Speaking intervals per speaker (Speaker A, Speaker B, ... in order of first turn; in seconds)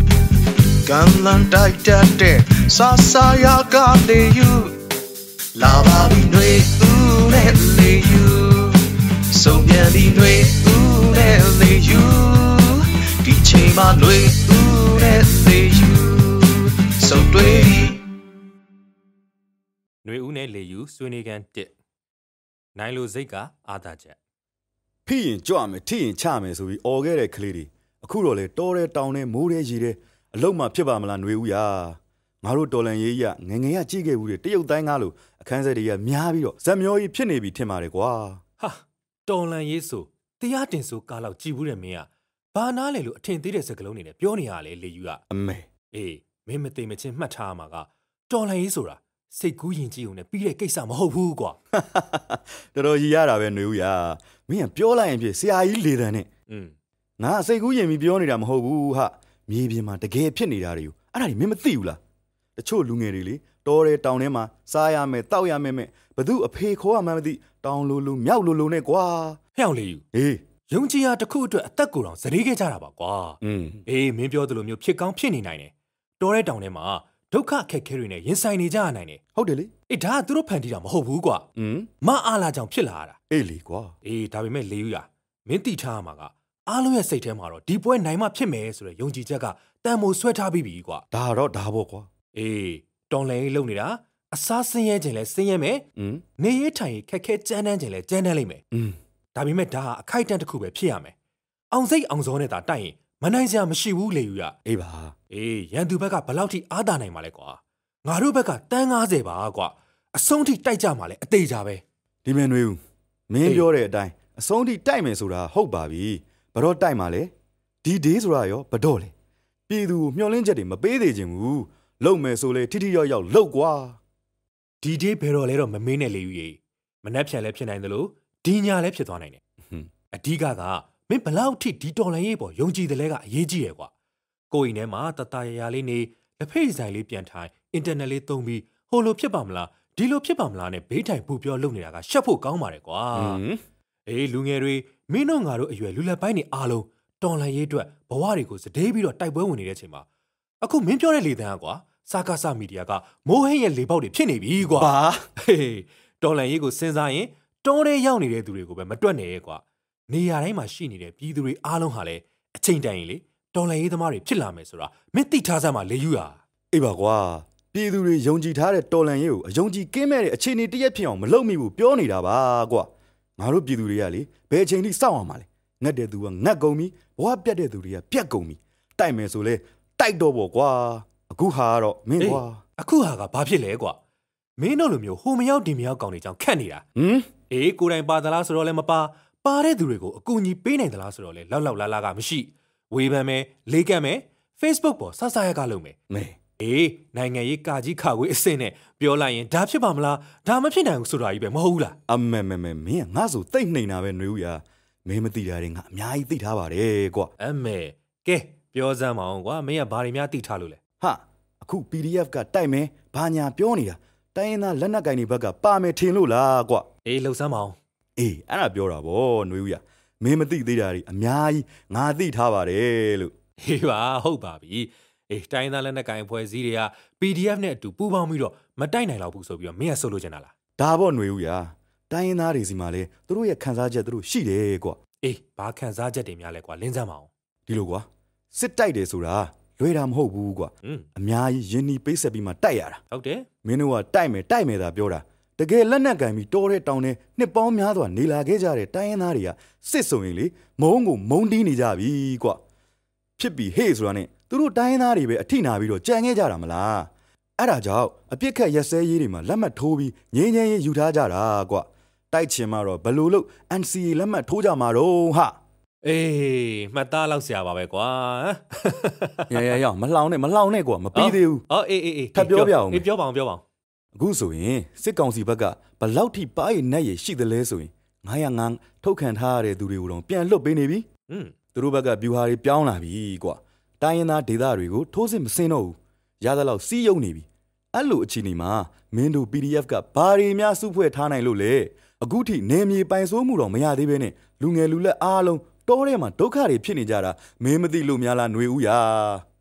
Speaker A: 0.8-4.8, 5.5-18.0
Speaker B: 20.0-21.7, 22.8-24.2, 38.6-45.2, 45.9-51.6, 56.5-56.7, 69.6-70.0, 70.7-79.2, 79.9-81.5, 82.0-83.2, 84.0-91.0, 92.3-95.8, 96.4-98.6, 99.3-101.1, 101.7-104.5, 105.3-111.8, 124.8-129.4, 130.1-133.9, 134.5-143.4, 144.1-150.1, 150.6-166.4, 182.2-184.0, 184.6-186.8, 187.5-196.0, 196.6-202.0, 207.4-210.8, 217.1-217.8, 223.6-230.5, 235.2-237.3, 240.8-241.1, 243.1-243.5, 266.0-269.7, 271.1-273.6, 281.3-281.6
Speaker C: 25.1-38.4, 45.3-45.7, 51.7-56.3, 57.2-62.0, 62.6-69.4, 70.1-70.4, 73.4-73.8, 79.3-79.7, 81.6-81.9, 83.3-83.9, 91.1-92.1, 96.0-96.2, 104.7-105.1, 112.2-112.8, 113.3-117.3, 117.8-119.1, 119.7-124.0, 143.2-143.6, 154.6-155.2, 166.7-182.6, 187.0-187.3, 196.1-196.4, 202.1-207.3, 211.0-216.9, 218.2-223.3, 230.8-235.0, 237.7-243.0, 243.6-252.6, 253.4-265.6, 269.5-271.6, 272.4-273.1, 274.1-281.1, 281.8-299.4